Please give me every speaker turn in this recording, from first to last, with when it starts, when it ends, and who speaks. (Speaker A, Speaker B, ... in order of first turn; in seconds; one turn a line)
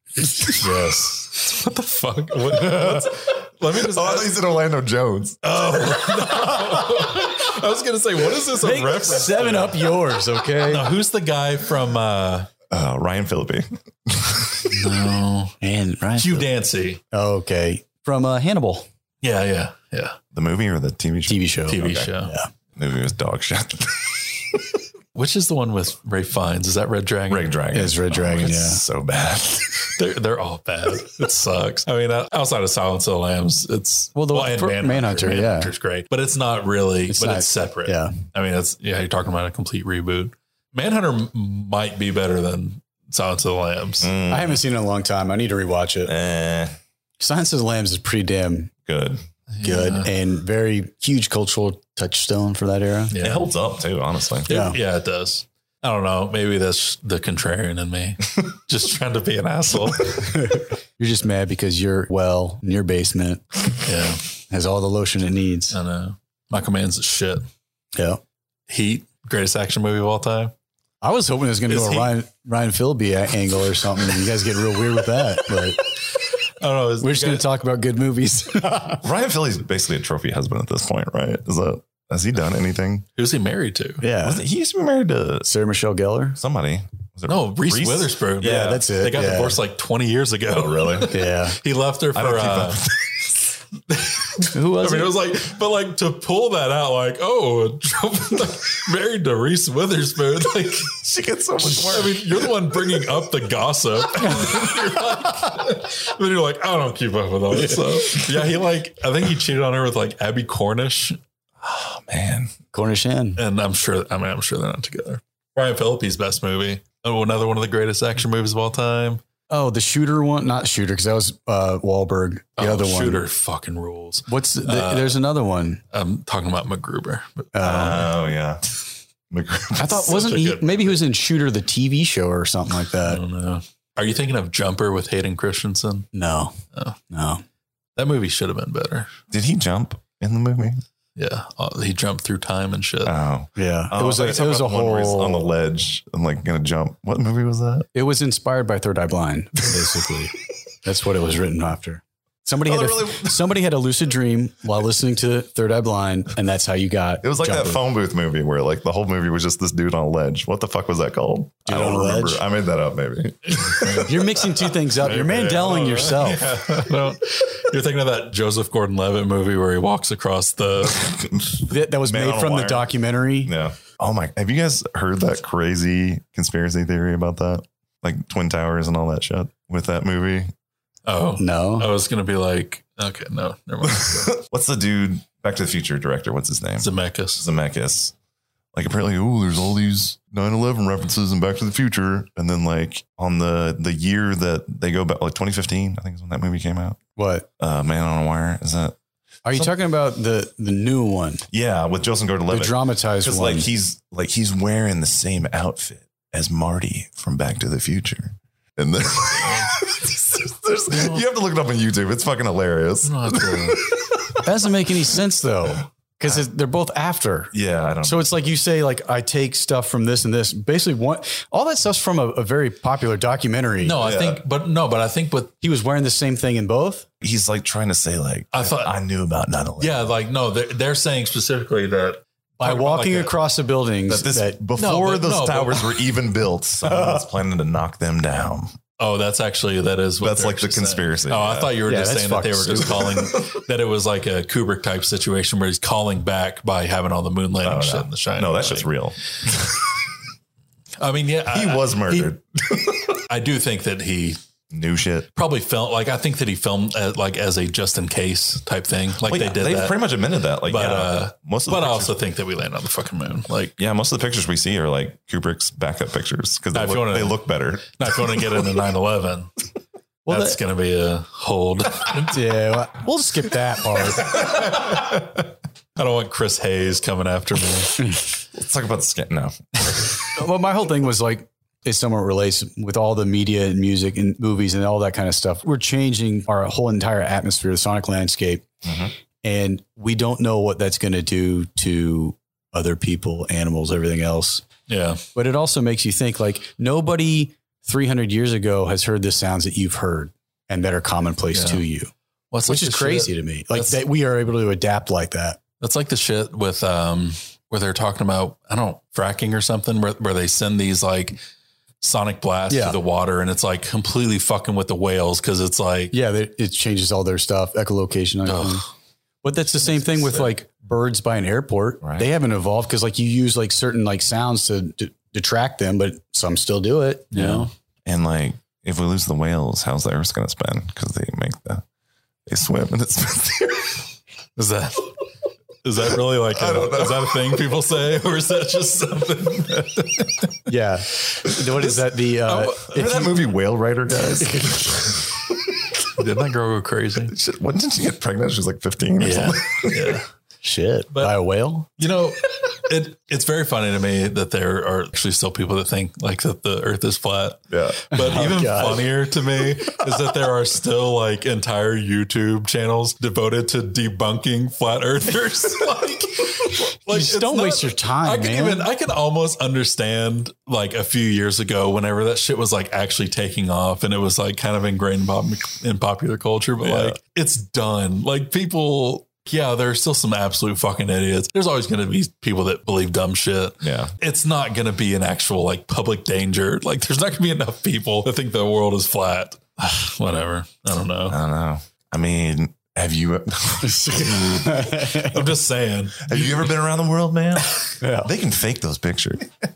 Speaker A: 0.3-0.6
Speaker B: 0.6-4.4
Speaker C: 2.6-3.1
Speaker C: 3.7-5.4
Speaker B: 5.4-10.0
Speaker A: 8.6-10.9
Speaker B: 10.6-12.5
Speaker C: 12.7-14.8
Speaker B: 14.7-15.6
Speaker A: 15.6-16.5
Speaker B: 16.2-17.0
Speaker A: 17.1-18.9
Speaker B: 19.2-20.2
Speaker C: 20.3-22.1
Speaker A: 21.3-22.5
Speaker B: 21.7-22.3
Speaker C: 22.8-24.7
Speaker B: 25.1-27.5
Speaker C: 27.3-29.9
Speaker A: 27.7-28.8
Speaker B: 29.8-44.1
Speaker A: 34.1-35.7
Speaker A: 37.1-38.2
Speaker C: 44.0-44.6
Speaker A: 44.3-46.1
Speaker C: 46.0-46.8
Speaker A: 47.2-48.7
Speaker C: 48.9-49.2
Speaker B: 49.5-50.1
Speaker A: 49.6-53.1
Speaker B: 53.1-53.5
Speaker C: 53.2-54.5
Speaker B: 54.5-60.3
Speaker A: 54.5-54.8
Speaker A: 60.2-63.4
Speaker B: 63.8-64.2
Speaker A: 64.5-65.8
Speaker B: 65.7-67.5
Speaker A: 68.0-68.2
Speaker B: 68.7-70.5
Speaker A: 71.0-75.9
Speaker B: 71.7-72.1
Speaker B: 76.4-77.5
Speaker A: 77.0-79.0
Speaker C: 79.0-83.0
Speaker B: 83.2-84.0
Speaker A: 84.0-84.4
Speaker C: 84.2-85.5
Speaker A: 85.5-86.4
Speaker C: 86.4-88.8
Speaker B: 87.3-92.8
Speaker A: 88.4-89.6
Speaker C: 90.5-91.1
Speaker A: 91.1-91.6
Speaker C: 92.1-93.3
Speaker B: 93.9-101.0
Speaker A: 94.5-95.1
Speaker C: 100.9-103.0
Speaker B: 101.7-111.2
Speaker C: 104.2-104.9
Speaker C: 111.6-112.5
Speaker A: 112.7-113.4
Speaker B: 113.4-119.2
Speaker A: 119.5-123.2
Speaker B: 122.6-125.2
Speaker A: 124.3-125.8
Speaker B: 125.9-127.5
Speaker A: 127.5-128.1
Speaker C: 127.6-128.6
Speaker C: 129.3-130.1
Speaker A: 129.8-133.2
Speaker B: 129.8-131.0
Speaker B: 133.0-136.1
Speaker A: 136.1-136.6
Speaker A: 137.1-137.4
Speaker B: 137.9-139.1
Speaker C: 139.3-140.8
Speaker B: 141.2-143.1
Speaker C: 143.0-147.9
Speaker A: 143.6-145.5
Speaker A: 147.9-157.8
Speaker C: 152.7-153.4
Speaker C: 157.2-164.2
Speaker A: 161.7-162.4
Speaker B: 163.6-164.2
Speaker A: 164.0-166.5
Speaker B: 164.9-171.1
Speaker C: 170.9-172.9
Speaker A: 171.7-173.5
Speaker C: 173.4-180.5
Speaker B: 181.1-184.4
Speaker A: 181.4-181.9
Speaker C: 183.9-188.1
Speaker B: 186.8-187.4
Speaker C: 188.7-197.0
Speaker A: 197.2-197.5
Speaker C: 197.6-198.9
Speaker A: 199.4-201.4
Speaker C: 201.5-214.4
Speaker A: 202.5-203.7
Speaker B: 209.4-209.7
Speaker B: 210.9-211.2
Speaker B: 213.0-213.9
Speaker A: 214.4-224.0
Speaker C: 217.5-218.3
Speaker B: 223.8-225.5
Speaker C: 224.0-224.4
Speaker A: 225.6-227.1
Speaker C: 227.2-230.1
Speaker B: 228.5-228.9
Speaker B: 229.8-233.3
Speaker A: 232.6-234.6
Speaker C: 234.1-238.7
Speaker B: 234.8-236.0
Speaker A: 236.8-237.2
Speaker B: 239.0-248.9
Speaker C: 240.2-241.8
Speaker A: 241.8-243.2
Speaker C: 247.6-249.2
Speaker B: 251.0-252.3
Speaker C: 251.5-253.2
Speaker B: 253.3-254.4
Speaker C: 254.7-255.3
Speaker B: 255.3-260.0
Speaker C: 259.2-262.1
Speaker B: 260.6-263.8
Speaker C: 263.8-268.5
Speaker B: 266.7-267.4
Speaker B: 268.0-269.5
Speaker A: 270.2-270.6
Speaker B: 270.3-272.4
Speaker A: 272.3-274.5
Speaker B: 274.2-275.4
Speaker B: 275.9-278.0
Speaker C: 278.5-279.6
Speaker A: 280.3-288.6
Speaker C: 288.8-289.1
Speaker A: 289.4-294.6
Speaker B: 294.9-295.2
Speaker A: 295.3-302.1
Speaker B: 301.5-301.8
Speaker B: 302.5-304.0
Speaker A: 302.6-305.6
Speaker B: 305.8-311.4
Speaker B: 312.0-316.1
Speaker A: 312.7-313.0
Speaker A: 316.1-318.8
Speaker B: 318.4-318.9
Speaker A: 319.4-327.7
Speaker B: 319.8-320.5
Speaker C: 322.0-322.3
Speaker B: 327.3-327.7
Speaker C: 328.1-331.8
Speaker C: 332.4-334.1
Speaker B: 334.6-335.2
Speaker B: 335.8-340.6
Speaker C: 336.5-337.6
Speaker A: 340.7-343.3
Speaker B: 341.7-343.2
Speaker C: 342.9-345.4
Speaker B: 346.1-347.3
Speaker C: 347.3-350.2
Speaker B: 349.2-350.3
Speaker A: 350.6-351.9
Speaker B: 352.0-391.4
Speaker C: 357.7-358.0
Speaker A: 358.1-359.1
Speaker A: 367.1-368.9
Speaker C: 376.8-377.2
Speaker C: 383.8-384.1
Speaker C: 391.3-394.9
Speaker A: 393.9-395.4
Speaker B: 394.8-396.8
Speaker C: 396.2-399.5
Speaker A: 398.0-398.3